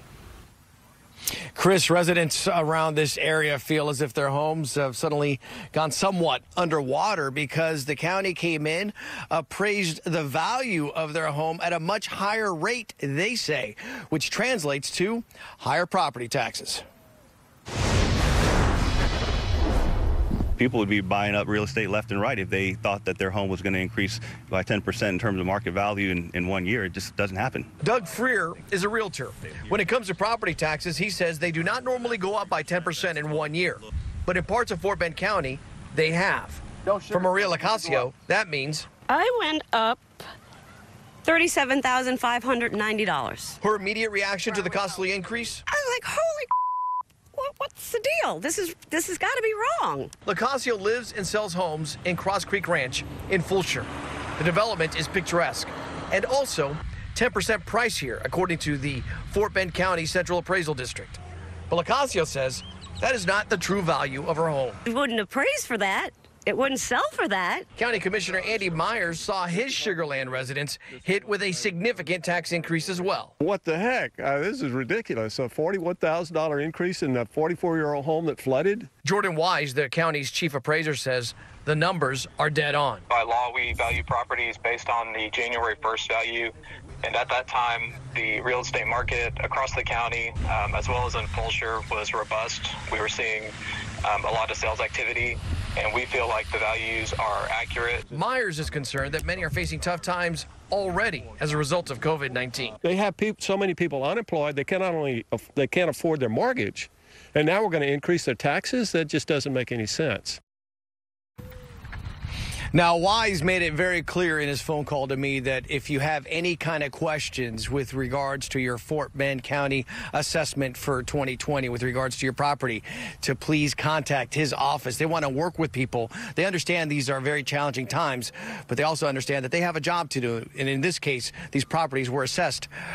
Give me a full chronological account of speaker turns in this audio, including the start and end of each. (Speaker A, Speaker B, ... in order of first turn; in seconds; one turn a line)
Speaker A: 1.5-16.8
Speaker B: 20.6-27.7
Speaker A: 27.8-38.9
Speaker C: 39.1-40.2
Speaker C: 41.2-43.6
Speaker A: 43.6-45.6
Speaker C: 45.7-46.5
Speaker C: 47.3-50.1
Speaker A: 50.2-61.2
Speaker A: 61.7-64.8
Speaker C: 64.8-67.7
Speaker A: 67.8-73.3
Speaker D: 73.4-78.9
Speaker A: 79.0-83.0
Speaker E: 83.1-93.5
Speaker E: 94.0-98.0
Speaker A: 98.1-102.8
Speaker D: 102.8-110.4
Speaker A: 112.7-132.7